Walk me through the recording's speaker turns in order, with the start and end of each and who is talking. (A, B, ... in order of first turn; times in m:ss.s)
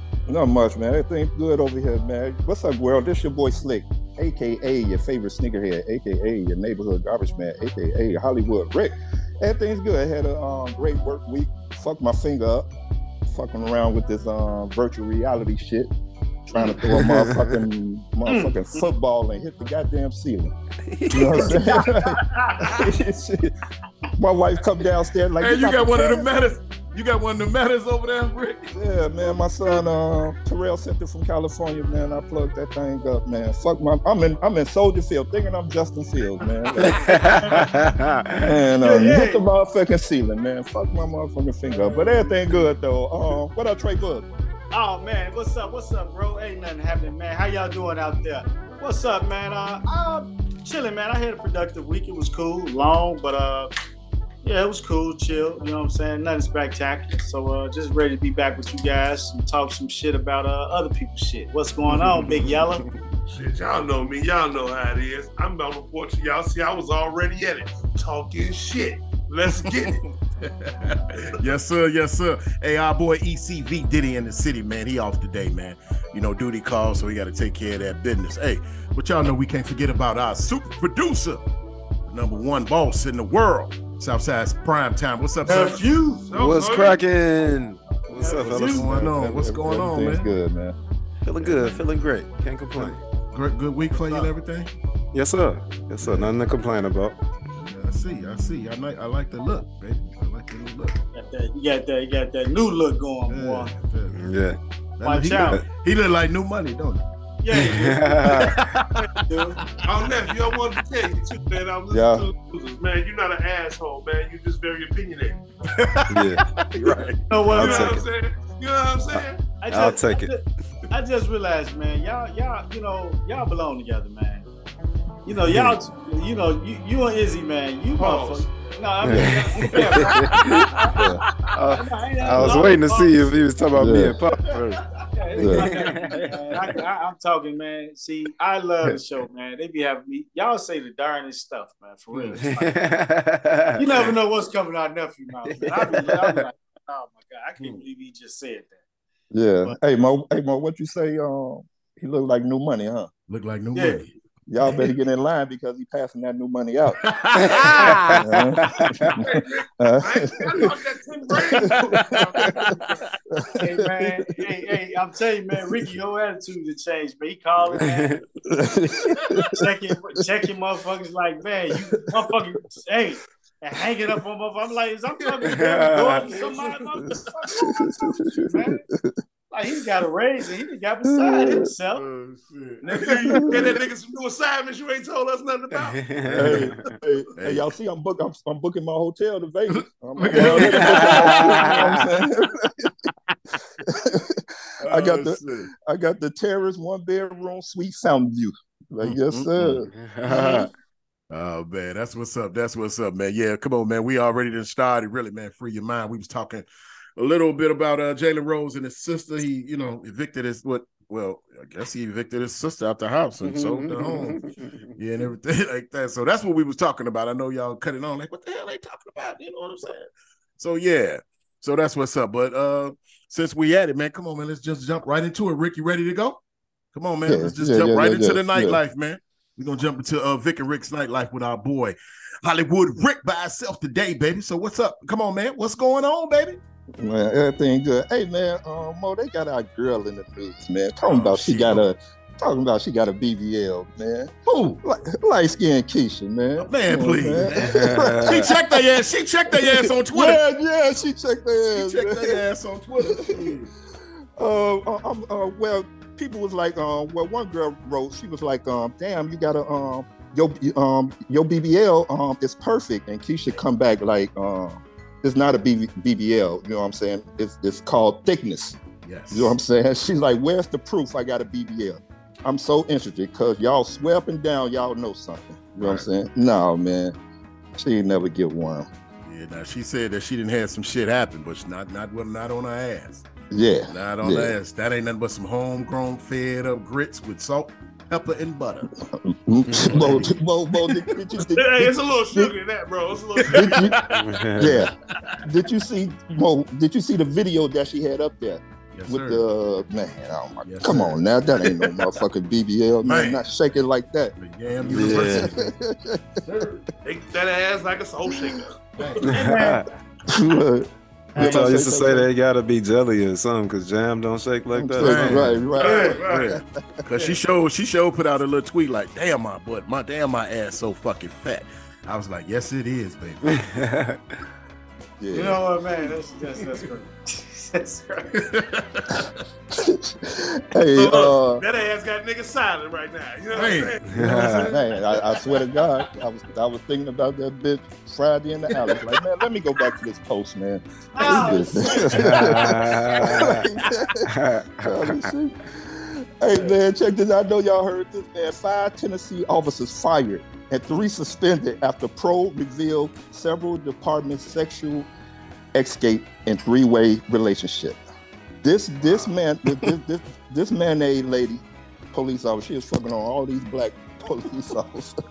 0:00.3-0:12.7 A
0:13.3-0:15.9 A
0:16.5-0:20.5 A
0:16.8-0:17.6 B
0:18.2-0:18.5 C
0:20.9-0:21.6 B
0:21.1-0:23.5 A
0:21.3-0:22.8 D
0:24.2-0:26.3 A
0:25.4-0:28.7 E
0:28.7-0:37.3 A
0:36.8-0:38.4 B
0:37.2-0:37.7 D
0:38.4-0:44.2 A
0:38.8-0:39.4 D
0:41.8-0:42.4 D
0:44.7-0:53.7 D
0:54.4-1:02.8 D
1:03.3-1:10.0 C
1:10.6-1:21.4 E
1:22.1-1:25.9 E
1:25.4-1:26.4 D
1:26.3-1:27.0 C
1:26.3-1:29.2 B
1:28.2-1:28.8 D
1:28.4-1:30.3 E
1:28.9-1:30.8 A
1:31.2-1:33.0 B
1:31.4-1:31.8 E
1:32.8-1:34.7 E
1:35.1-1:37.2 B
1:36.0-1:36.3 E
1:37.6-1:41.0 E
1:41.1-1:43.7 D
1:43.3-1:44.3 E
1:44.1-1:44.6 B
1:45.0-1:47.0 E
1:45.0-1:45.6 D
1:47.4-1:49.6 D
1:47.5-1:48.9 B
1:49.8-1:55.4 C
1:51.9-1:52.3 A
1:55.8-1:56.2 E
1:56.1-1:56.4 B
1:56.8-1:57.1 A
1:56.8-1:57.1 E
1:57.3-1:58.0 D
1:57.5-1:59.4 C
1:57.5-1:58.0 B
1:59.1-2:00.3 B
1:59.6-2:04.4 D
2:05.2-2:11.0 D
2:05.4-2:05.8 B
2:08.0-2:08.4 C
2:09.0-2:10.7 B
2:11.0-2:11.2 A
2:11.5-2:14.8 B
2:11.7-2:13.4 D
2:13.7-2:14.2 A
2:15.1-2:22.9 D
2:15.4-2:15.8 A
2:15.4-2:16.7 B
2:22.1-2:22.4 E
2:22.4-2:24.1 B
2:23.8-2:28.8 D
2:25.5-2:26.4 B
2:29.3-2:33.1 A
2:33.3-2:34.1 E
2:33.7-2:34.0 D
2:34.5-2:37.2 A
2:37.0-2:38.1 E
2:37.3-2:39.2 B
2:38.1-2:40.7 A
2:39.2-2:42.5 C
2:41.5-2:42.5 A
2:41.7-2:43.1 E
2:43.3-2:44.2 A
2:43.6-2:48.2 D
2:47.8-2:48.2 B
2:48.5-2:49.5 A
2:49.5-2:58.8 D
2:55.4-2:56.4 B
2:57.5-2:59.1 A
2:59.5-3:02.0 D
3:01.0-3:01.7 A
3:01.9-3:03.3 E
3:02.8-3:06.0 C
3:03.1-3:03.7 A
3:05.8-3:06.9 B
3:06.2-3:06.7 E
3:06.4-3:12.9 A
3:07.4-3:07.7 E
3:09.8-3:11.8 E
3:10.3-3:12.0 B
3:13.8-3:20.6 A
3:14.8-3:15.7 E
3:19.0-3:19.8 E
3:19.8-3:20.7 B
3:21.3-3:34.4 E
3:33.4-3:34.9 B
3:34.9-3:46.4 E
3:46.9-3:56.6 E
3:47.2-3:48.8 A
3:57.0-4:04.3 A
4:01.1-4:01.9 E
4:04.4-4:04.8 E
4:04.8-4:08.8 A
4:06.6-4:10.4 E
4:07.4-4:08.5 B
4:09.5-4:12.4 A
4:11.7-4:13.7 E
4:13.0-4:13.5 A
4:14.4-4:37.1 A
4:29.0-4:29.6 E
4:35.8-4:36.0 E
4:37.8-4:38.9 A
4:39.2-4:43.2 E
4:43.5-4:44.5 A
4:43.9-4:48.9 E
4:49.1-4:52.5 A
4:49.7-4:50.3 B
4:49.9-4:50.2 E
4:51.4-4:54.0 C
4:53.5-4:54.0 A
4:54.1-4:54.8 B
4:54.6-4:54.9 A
4:55.4-5:04.3 A
4:58.9-4:59.4 E
5:00.6-5:01.9 E
5:03.0-5:03.5 E
5:04.4-5:05.7 E
5:04.8-5:05.5 B
5:05.0-5:06.4 A
5:06.4-5:06.8 E
5:07.0-5:09.1 C
5:08.3-5:08.6 A
5:09.0-5:09.3 E
5:09.2-5:09.8 D
5:09.2-5:09.8 B
5:10.3-5:12.3 A
5:11.3-5:11.9 D
5:11.4-5:15.6 B
5:14.7-5:16.6 A
5:15.0-5:15.6 E
5:15.7-5:16.5 C
5:15.8-5:16.2 D
5:16.2-5:23.6 E
5:23.4-5:24.4 B
5:25.2-5:25.6 A
5:25.3-5:28.3 D
5:28.3-5:29.4 E
5:29.7-5:31.6 A
5:30.9-5:34.4 C
5:33.5-5:34.6 E
5:34.0-5:34.8 B
5:34.4-5:44.3 A
5:41.1-5:42.6 D
5:42.1-5:43.7 B
5:44.2-5:45.3 B
5:44.8-5:55.1 A
5:55.7-5:58.0 A
5:58.6-6:05.1 A